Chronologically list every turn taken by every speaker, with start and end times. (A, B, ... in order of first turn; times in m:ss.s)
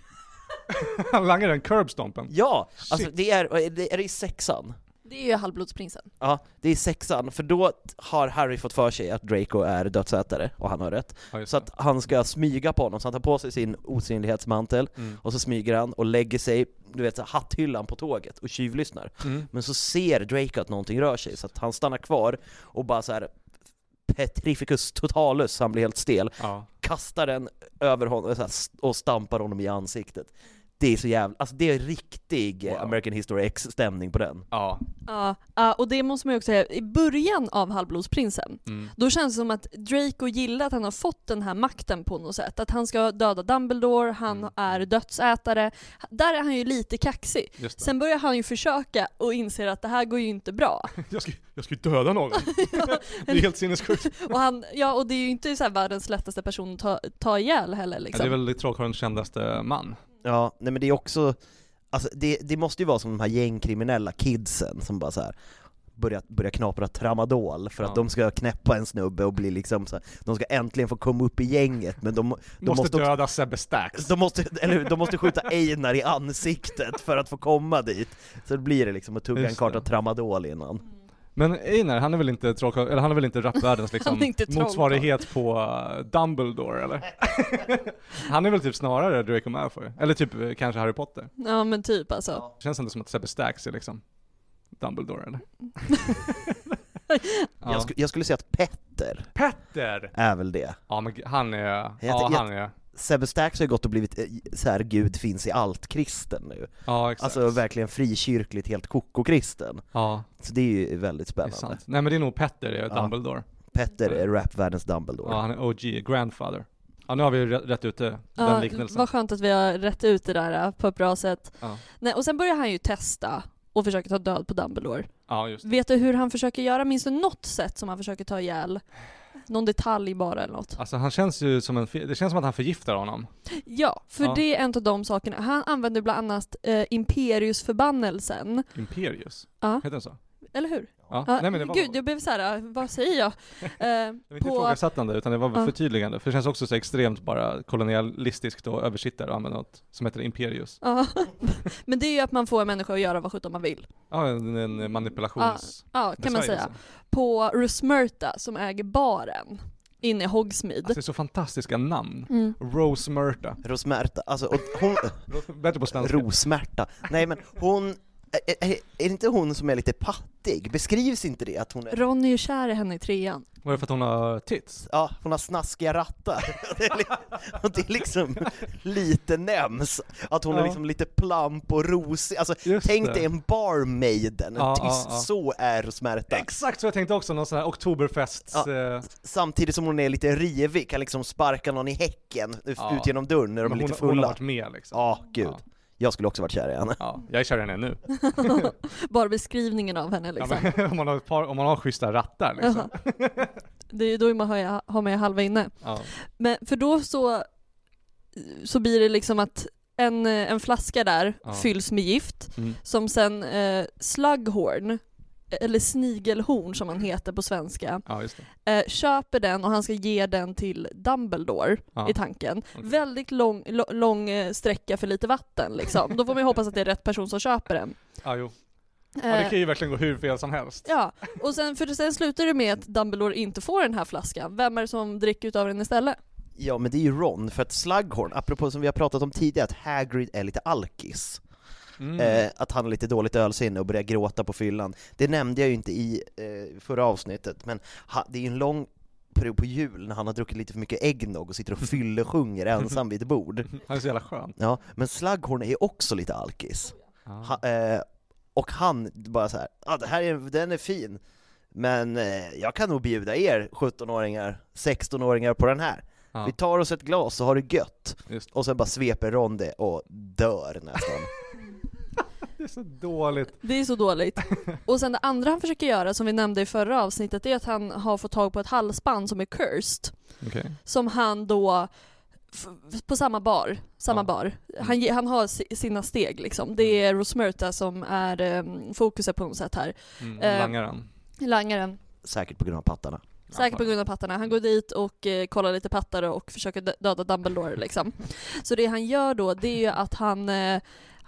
0:00.7-0:03.1 A
0:02.3-0:04.8 B
0:05.0-0:06.1 C
0:06.2-0:23.3 B
0:11.3-0:11.7 A
0:24.1-0:34.5 B
0:26.4-0:26.7 A
0:32.6-0:33.0 A
0:34.5-0:34.8 A
0:35.1-0:51.0 C
0:38.6-0:38.9 A
0:47.6-0:47.9 A
0:51.0-0:54.2 A
0:52.6-0:58.4 C
0:58.1-1:00.0 A
1:00.2-1:01.4 B
1:01.9-1:05.4 B
1:06.0-1:13.1 B
1:12.6-1:14.1 A
1:14.0-1:20.8 B
1:19.4-1:19.8 A
1:21.4-1:31.3 A
1:24.0-1:25.2 C
1:31.4-1:32.4 C
1:32.6-1:34.0 A
1:34.7-1:36.5 A
1:37.1-1:37.5 C
1:37.6-1:37.9 A
1:37.6-1:39.3 B
1:39.4-1:40.1 A
1:40.1-1:40.8 B
1:40.9-1:42.7 A
1:42.0-1:49.9 B
1:46.9-1:47.6 A
1:49.9-1:50.3 A
1:50.4-1:51.8 B
1:51.4-1:53.4 A
1:52.9-1:53.2 B
1:53.7-1:55.4 B
1:55.2-1:59.1 A
1:58.4-2:10.8 C
2:05.3-2:05.7 A
2:10.8-2:13.4 A
2:13.6-2:18.7 C
2:18.7-2:20.2 A
2:19.6-2:19.9 C
2:20.5-2:24.8 C
2:21.1-2:22.0 A
2:24.3-2:30.8 A
2:30.8-2:33.9 C
2:34.1-2:36.8 A
2:35.4-2:41.0 C
2:40.8-2:43.6 A
2:42.3-2:42.6 C
2:43.6-2:45.2 B
2:45.3-2:46.3 A
2:45.9-2:52.0 B
2:51.9-2:53.4 C
2:53.6-2:54.9 A
2:54.9-3:06.5 B
3:00.5-3:00.8 A
3:02.6-3:03.3 A
3:04.6-3:05.3 A
3:06.3-3:09.1 A
3:08.5-3:14.4 B
3:12.8-3:13.1 A
3:13.6-3:15.6 A
3:14.9-3:17.1 B
3:17.0-3:18.7 A
3:18.2-3:20.7 C
3:20.4-3:23.5 A
3:22.6-3:22.9 C
3:23.9-3:27.5 C
3:25.8-3:26.1 A
3:28.3-3:48.0 C
3:31.4-3:31.7 A
3:38.0-3:38.5 A
3:48.2-3:51.0 A
3:49.2-3:49.6 C
3:50.8-3:56.2 C
3:56.6-4:01.4 B
4:02.0-4:02.4 A
4:02.2-4:13.8 B
4:13.8-4:14.6 A
4:14.6-4:21.2 B
4:17.3-4:17.6 A
4:21.7-4:31.3 B
4:32.6-4:33.7 A
4:33.6-4:41.9 C
4:40.4-4:40.8 A
4:42.5-4:50.8 C
4:50.2-4:51.0 A
4:51.4-4:52.0 C
4:52.2-4:53.2 B
4:53.5-4:53.9 A
4:53.5-5:00.8 C